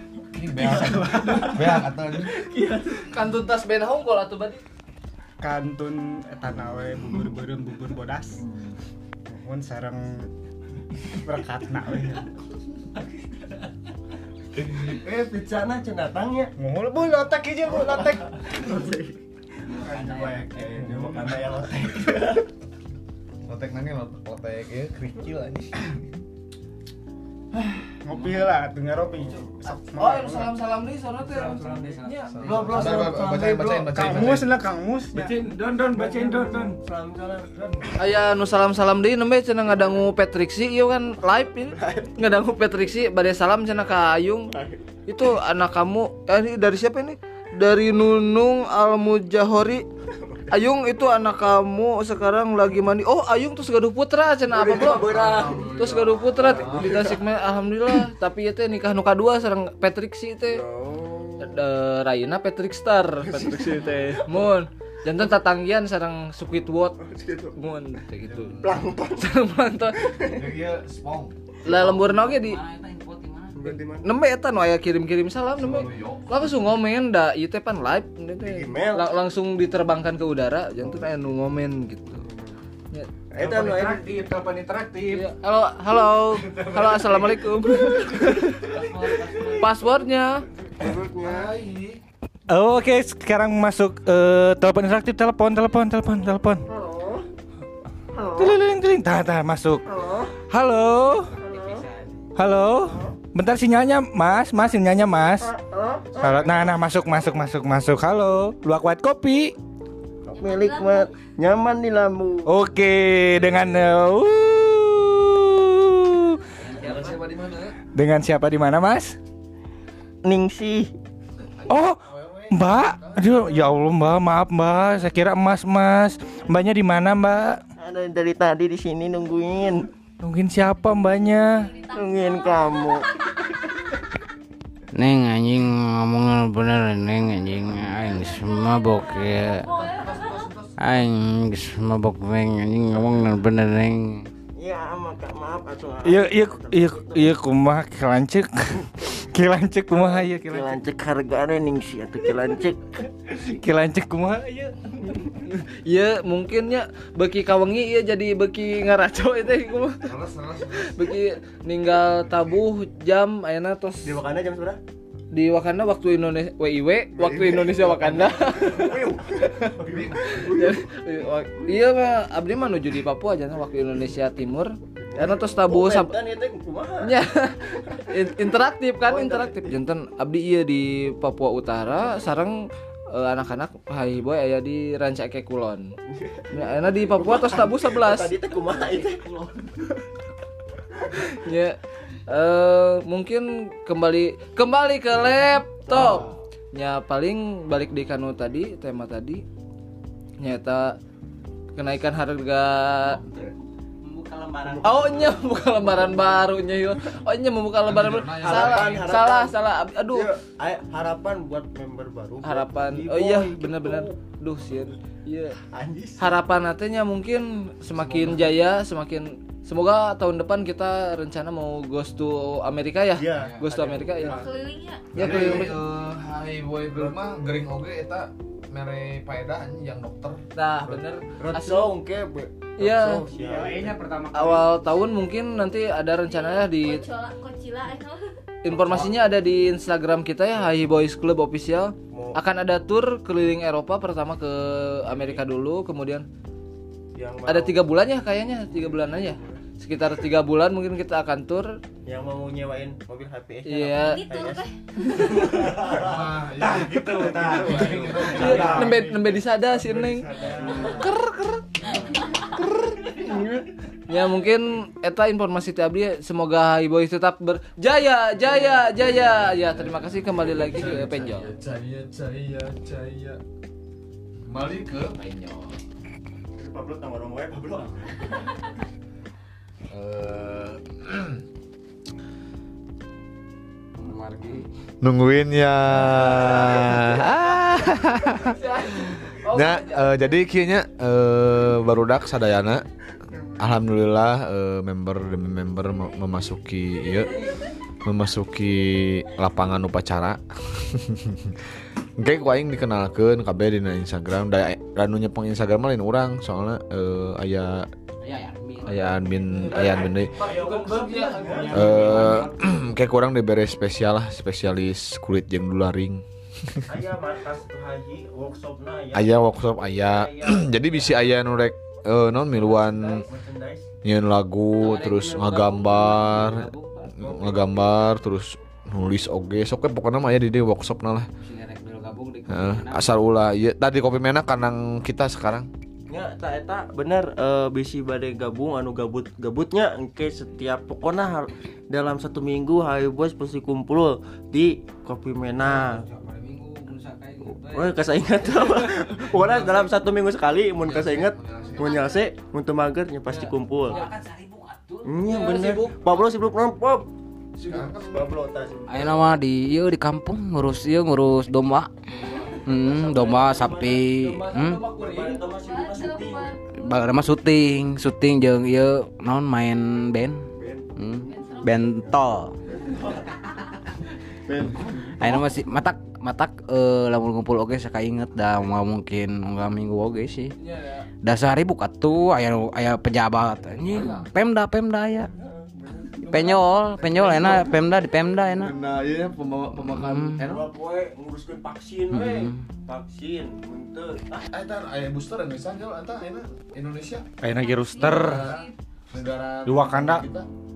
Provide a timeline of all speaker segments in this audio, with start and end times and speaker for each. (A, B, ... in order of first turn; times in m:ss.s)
0:00.3-0:02.5 A
0:00.6-0:01.7 B
0:02.5-0:04.6 C
0:05.4-0:08.4 B
0:09.3-0:10.3 B
0:11.1-0:12.4 B
0:14.6-0:16.5 D
0:16.6-0:18.6 B
0:17.7-0:19.2 D
0:19.7-0:20.5 E
0:19.8-0:21.2 B
0:20.3-0:22.5 D
0:23.4-0:26.0 A
0:28.0-0:30.5 B
0:28.1-0:28.5 E
0:30.0-0:32.3 C
0:31.2-0:33.0 E
0:31.4-0:33.9 D
0:32.3-0:34.6 A
0:33.8-0:35.4 B
0:35.1-0:36.8 F
0:35.9-0:38.2 D
0:38.0-0:44.5 C
0:41.7-0:42.2 D
0:44.5-0:44.8 D
0:45.1-0:49.8 C
0:50.2-0:50.5 D
0:50.5-1:00.6 C
0:54.5-0:57.2 D
0:55.1-0:57.1 A
1:00.5-1:01.6 D
1:01.4-1:07.0 C
1:03.2-1:04.5 D
1:03.7-1:04.2 E
1:07.0-1:07.6 D
1:07.5-1:10.2 C
1:08.2-1:08.9 A
1:08.6-1:09.4 D
1:10.1-1:10.5 D
1:10.3-1:11.4 A
1:11.6-1:12.6 C
1:11.7-1:11.9 D
1:11.7-1:13.7 E
1:13.6-1:14.1 D
1:14.0-1:22.2 C
1:15.6-1:16.4 A
1:18.4-1:19.1 D
1:22.1-1:22.6 D
1:23.3-1:24.2 D
1:23.4-1:25.3 F
1:25.1-1:28.8 C
1:26.6-1:28.1 D
1:28.6-1:29.8 E
1:29.4-1:30.4 C
1:30.8-1:31.6 D
1:31.2-1:32.0 A
1:32.5-1:36.6 F
1:36.7-1:37.2 D
1:38.1-1:38.6 D
1:38.3-1:39.8 F
1:39.9-1:40.4 D
1:40.5-1:41.3 F
1:41.3-1:42.3 E
1:41.4-1:41.9 D
1:42.4-1:45.5 F
1:42.9-1:43.2 D
1:45.4-1:46.9 D
1:46.2-1:49.6 F
1:50.3-1:52.5 D
1:50.3-1:51.3 G
1:52.5-1:56.4 F
1:56.6-1:57.8 A
1:56.6-1:57.2 E
1:57.9-1:59.2 F
2:00.2-2:00.9 D
2:01.4-2:03.7 A
2:01.7-2:07.6 F
2:07.8-2:09.9 D
2:10.2-2:11.7 F
2:11.6-2:13.2 G
2:11.9-2:13.1 D
2:14.9-2:19.7 E
2:18.0-2:20.5 G
2:20.2-2:20.7 A
2:20.8-2:24.3 E
2:24.6-2:27.4 D
2:26.0-2:30.8 F
2:30.0-2:33.1 D
2:33.3-2:34.9 F
2:35.5-2:40.1 C
2:40.0-2:41.1 A
2:40.7-2:44.2 C
2:44.0-2:44.8 D
2:45.3-2:49.0 C
2:47.1-2:50.8 D
2:49.8-2:50.5 A
2:50.3-2:56.2 C
2:55.0-2:57.2 D
2:57.0-3:02.6 C
2:59.1-2:59.8 D
3:03.1-3:05.9 C
3:06.1-3:09.3 D
3:06.5-3:08.3 C
3:08.7-3:09.6 E
3:11.3-3:11.8 C
3:12.3-3:19.4 C
3:15.9-3:16.4 D
3:20.4-3:21.0 C
3:21.8-3:23.2 C
3:24.0-3:26.4 E
3:24.6-3:26.1 D
3:24.8-3:30.3 C
3:27.8-3:29.2 A
3:28.4-3:29.6 D
3:30.1-3:34.2 D
3:32.4-3:35.6 C
3:35.7-3:36.4 D
3:36.2-3:44.5 C
3:38.0-3:38.5 D
3:43.2-3:44.5 D
3:43.4-3:43.6 E
3:44.2-3:45.1 G
3:45.1-3:45.8 C
3:45.2-3:50.4 A
3:45.2-3:45.8 D
3:50.5-3:51.9 C
3:51.4-3:54.0 D
3:52.8-3:53.2 C
3:53.5-3:54.7 F
3:54.3-3:57.0 C
3:56.2-3:58.4 G
3:58.6-4:06.3 C
3:58.7-3:59.2 D
4:02.1-4:02.4 D
4:05.1-4:05.4 D
4:07.2-4:07.9 D
4:07.5-4:11.8 C
4:08.8-4:09.6 D
4:12.1-4:16.4 D
4:13.6-4:14.3 C
4:14.0-4:14.7 G
4:15.6-4:19.0 A
4:16.6-4:18.4 F
4:17.2-4:21.1 D
4:17.5-4:19.3 B
4:18.3-4:22.0 C
4:23.0-4:23.6 D
4:24.1-4:31.5 C
4:30.3-4:33.4 A
4:34.5-4:35.2 A
4:35.2-4:35.7 E
4:36.6-4:38.5 D
4:39.9-4:41.4 A
4:44.0-4:44.7 E
4:45.0-4:48.6 A
4:48.4-4:50.2 C
4:49.1-4:52.8 A
4:53.6-4:57.4 A
4:56.0-4:56.3 G
4:57.0-4:57.3 G
4:58.0-5:07.9 A
5:08.2-5:09.6 E
5:08.8-5:10.3 A
5:09.7-5:12.4 C
5:10.4-5:12.3 F
5:10.5-5:10.8 D
5:11.1-5:11.4 E
5:11.3-5:11.8 D
5:11.7-5:16.9 A
5:11.9-5:12.4 B
5:16.9-5:19.4 D
5:19.1-5:23.3 A
5:20.6-5:21.2 E
5:23.0-5:23.9 D
5:24.0-5:31.3 A
5:24.8-5:28.0 E
5:31.4-5:33.2 E
5:32.5-5:35.7 A
5:36.1-5:46.1 D
5:45.6-5:48.7 E
5:47.4-5:54.0 D
5:49.4-5:49.9 E
5:50.8-5:52.0 A
5:51.5-5:52.4 G
5:53.3-5:55.2 E
5:55.0-5:59.3 D
5:55.2-5:56.2 C
5:57.6-5:58.3 A
5:58.9-6:01.9 E
6:02.1-6:02.7 C
6:02.6-6:04.9 E
6:02.7-6:04.1 D
6:04.1-6:05.4 C
6:04.7-6:06.5 D
6:05.4-6:07.3 G
6:06.8-6:10.4 E
6:10.6-6:13.4 D
6:11.0-6:12.6 E
6:11.2-6:11.8 G
6:14.5-6:15.4 D
6:15.2-6:20.5 E
6:20.6-6:21.1 C
6:21.2-6:25.3 E
6:23.8-6:24.3 A
6:25.3-6:26.7 D
6:26.3-6:28.8 E
6:27.0-6:27.7 A
6:27.4-6:27.7 D
6:28.6-6:30.7 A
6:29.8-6:30.4 E
6:30.4-6:34.5 D
6:32.1-6:32.6 E
6:34.5-6:37.3 A
6:37.4-6:38.5 F
6:37.5-6:38.7 G
6:38.0-6:40.5 A
6:39.6-6:40.2 F